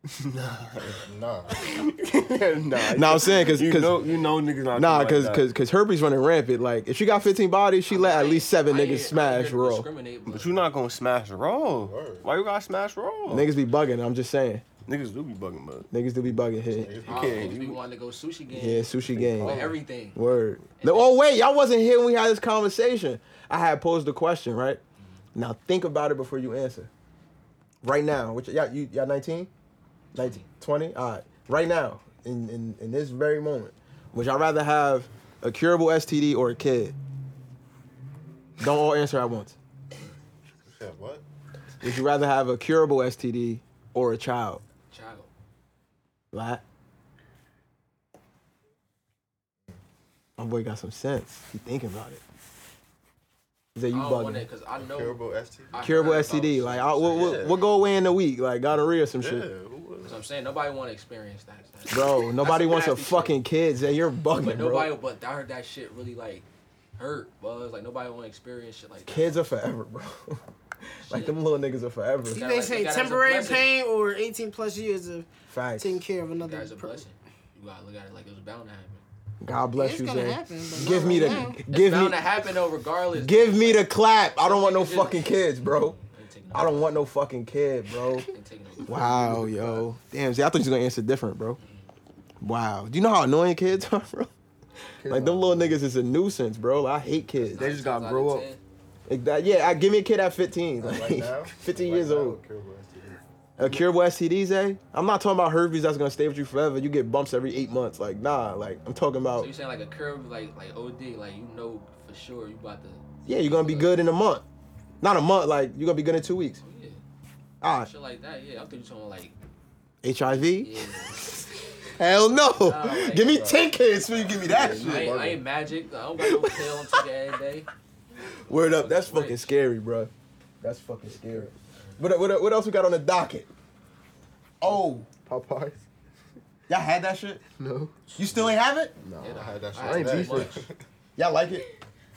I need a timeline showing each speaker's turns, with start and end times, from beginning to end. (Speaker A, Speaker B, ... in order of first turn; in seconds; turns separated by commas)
Speaker A: 0.1-1.0, Speaker B: 0.9-1.7, Speaker A: 1.6-5.4, Speaker C: 2.8-4.0, Speaker D: 4.0-4.3, Speaker C: 4.7-9.9, Speaker D: 7.9-10.6, Speaker A: 10.3-13.5, Speaker B: 11.8-12.3, Speaker C: 13.3-14.6, Speaker A: 14.8-15.9, Speaker C: 15.9-17.0, Speaker B: 16.6-17.6, Speaker D: 17.0-20.2, Speaker A: 17.1-17.8, Speaker C: 18.5-24.8, Speaker A: 19.1-19.8, Speaker D: 20.8-21.1, Speaker C: 25.3-26.9, Speaker C: 27.8-29.5, Speaker C: 30.1-37.0, Speaker D: 30.2-30.5, Speaker C: 38.6-39.5, Speaker B: 40.6-41.2, Speaker C: 41.8-44.6, Speaker D: 44.9-45.3, Speaker C: 46.3-46.6, Speaker C: 50.4-52.2, Speaker C: 53.7-54.5, Speaker D: 53.9-57.6, Speaker B: 54.7-56.4, Speaker C: 55.8-59.5, Speaker B: 57.1-57.6, Speaker B: 59.2-60.3, Speaker D: 60.0-63.4, Speaker C: 61.9-64.9, Speaker D: 64.4-66.5, Speaker D: 67.0-69.4, Speaker C: 69.1-70.4, Speaker C: 71.0-72.4, Speaker D: 71.1-71.3, Speaker D: 72.3-73.7, Speaker E: 72.3-75.3, Speaker C: 75.5-76.0, Speaker E: 75.8-77.0, Speaker D: 76.4-79.0, Speaker C: 79.4-82.2, Speaker E: 79.8-81.6, Speaker D: 80.9-87.0, Speaker C: 83.1-86.0, Speaker C: 86.5-88.3, Speaker D: 88.2-89.0, Speaker C: 88.8-91.6, Speaker A: 88.9-89.8, Speaker D: 91.6-91.9, Speaker C: 92.4-94.3, Speaker A: 95.0-95.8, Speaker C: 95.0-97.7, Speaker D: 97.5-98.6, Speaker A: 97.6-98.5, Speaker C: 99.1-102.4, Speaker B: 100.8-103.2, Speaker C: 103.6-109.5, Speaker D: 109.4-114.0, Speaker C: 113.2-114.4, Speaker C: 115.0-116.6, Speaker D: 116.6-117.0, Speaker C: 117.6-117.9, Speaker D: 117.8-119.3, Speaker C: 120.0-121.4, Speaker D: 120.5-121.2, Speaker C: 121.9-125.1, Speaker D: 122.6-123.6, Speaker B: 124.2-124.7, Speaker A: 124.4-125.4, Speaker D: 124.7-127.7, Speaker C: 126.2-127.0, Speaker D: 128.4-129.5, Speaker C: 128.4-133.5, Speaker D: 131.8-132.0, Speaker C: 134.6-135.1, Speaker A: 134.7-135.8, Speaker C: 136.7-137.4, Speaker A: 137.6-140.7, Speaker C: 138.2-138.9, Speaker D: 139.2-140.6, Speaker B: 139.2-140.7, Speaker C: 141.2-141.6